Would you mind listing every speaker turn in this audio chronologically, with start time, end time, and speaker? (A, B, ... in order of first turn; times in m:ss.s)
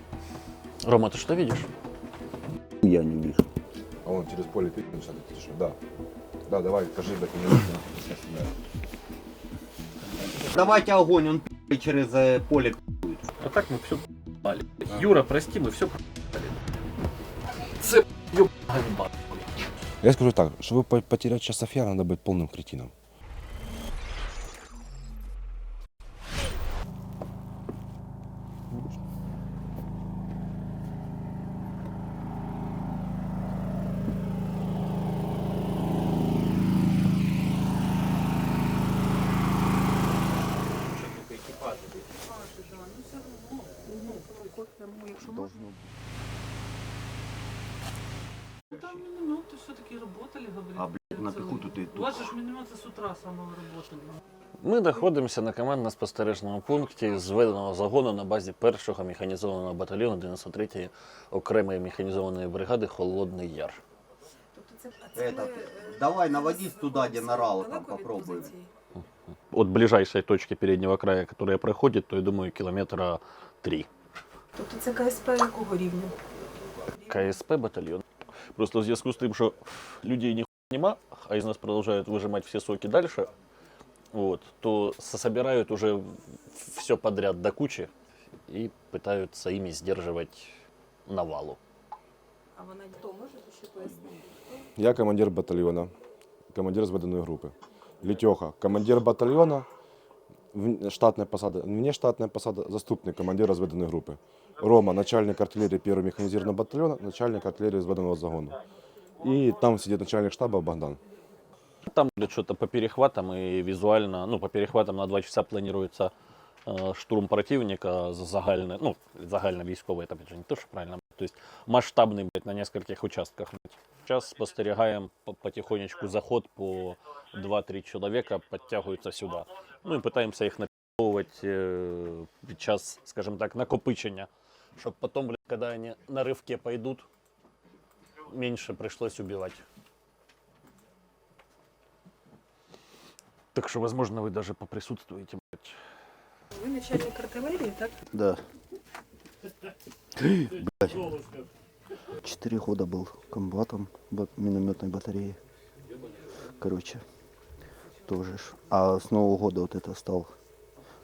0:00.8-0:01.7 A
0:02.8-0:03.4 B
0:04.0-0:05.8 C
0:06.5-0:08.5 C
0:10.0-0:10.6 A
0:10.5-0:13.2 B
0:13.4-0:16.5 A
0:17.8-0:19.5 A
0:20.0-0:22.9 C
0:40.8-0:42.1 A
0:42.2-0:45.6 D
0:43.8-0:45.0 E
0:45.1-0:45.9 B
0:48.7-0:54.2 D
0:50.7-0:52.3 B
0:54.6-1:03.8 A
1:04.6-1:08.7 E
1:05.1-1:08.5 B
1:09.5-1:13.9 A
1:14.6-1:16.1 E
1:17.0-1:18.0 A
1:18.5-1:23.3 A
1:24.1-1:27.9 A
1:28.5-1:30.5 A
1:31.1-1:31.6 A
1:32.6-1:34.0 E
1:34.8-1:35.9 C
1:36.5-1:39.7 C
1:40.5-1:48.6 C
1:49.2-1:51.0 C
1:51.8-1:56.1 A
1:56.6-2:17.0 A
2:18.2-2:19.6 A
2:23.5-2:25.8 A
2:26.5-2:27.9 E
2:28.1-2:28.4 B
2:30.2-2:31.0 B
2:30.5-2:31.5 A
2:32.2-2:35.4 B
2:36.6-2:37.0 B
2:38.0-2:40.3 B